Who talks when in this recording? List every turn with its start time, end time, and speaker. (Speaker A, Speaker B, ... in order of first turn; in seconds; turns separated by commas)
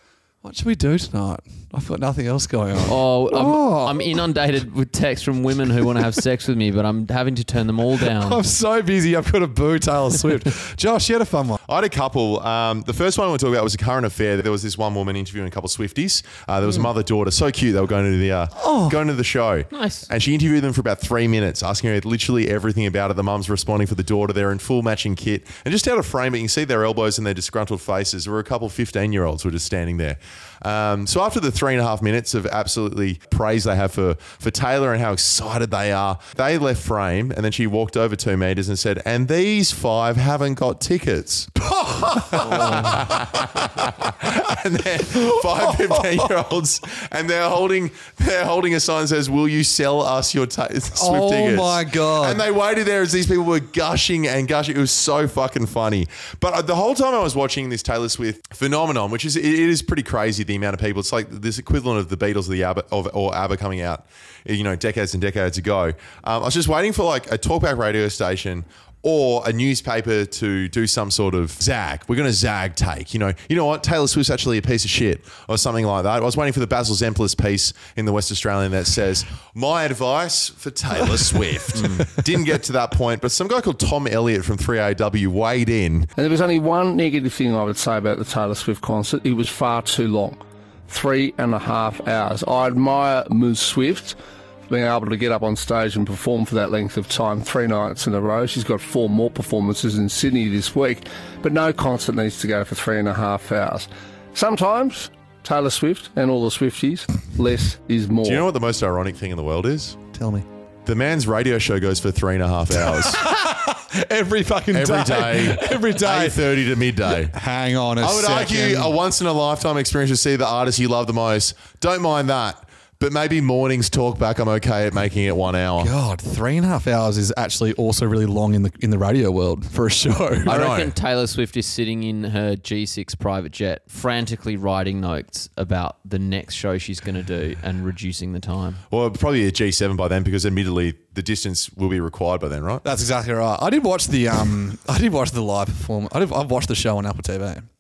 Speaker A: 0.4-4.2, Speaker B: 2.9-8.4, Speaker A: 8.0-11.6, Speaker C: 11.7-41.5, Speaker A: 18.6-19.0, Speaker B: 19.7-20.1, Speaker A: 41.6-43.9, Speaker C: 42.2-86.1, Speaker A: 45.1-46.3, Speaker A: 50.9-52.4, Speaker B: 81.8-82.1, Speaker D: 86.2-94.2, Speaker D: 94.7-108.5, Speaker C: 108.2-110.0, Speaker A: 110.1-110.5, Speaker C: 110.8-113.2, Speaker A: 112.8-116.5, Speaker C: 114.7-117.4, Speaker A: 117.1-119.0, Speaker C: 118.0-125.9, Speaker A: 125.8-130.6, Speaker C: 130.5-130.9, Speaker B: 130.5-138.8, Speaker C: 138.9-142.8, Speaker A: 142.8-147.7